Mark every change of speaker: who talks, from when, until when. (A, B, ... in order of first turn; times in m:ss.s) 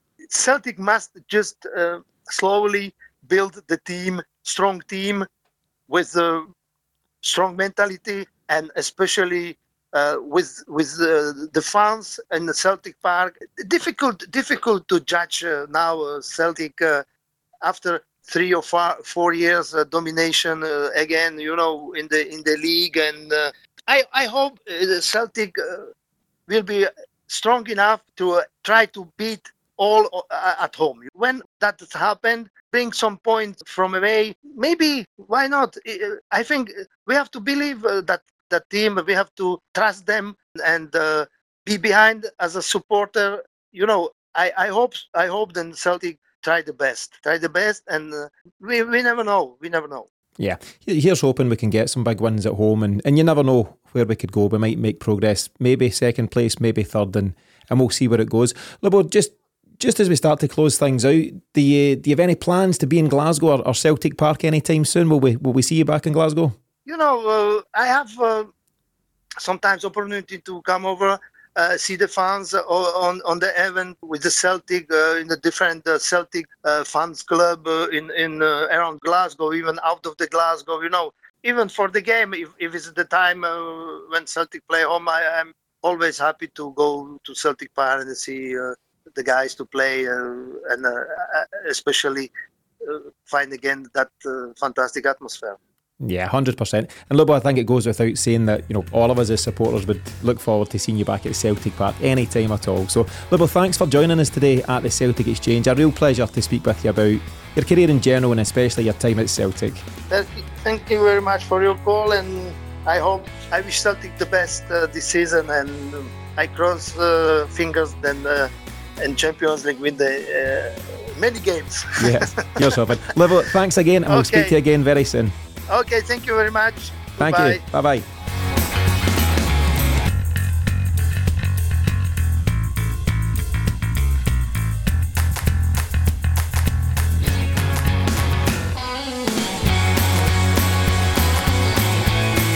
0:00.3-0:05.2 A
0:05.9-0:06.5 A
0:07.2-0:17.0 A
0:17.6-0:25.9 A
0:26.5-0:50.1 A
0:50.4-1:06.6 B
1:06.8-1:08.5 A
1:09.4-1:35.6 A
1:36.0-1:49.8 B
1:50.1-2:02.8 A
2:02.0-2:05.3 B
2:04.1-2:04.5 A
2:05.7-2:07.6 A
2:07.2-2:08.0 B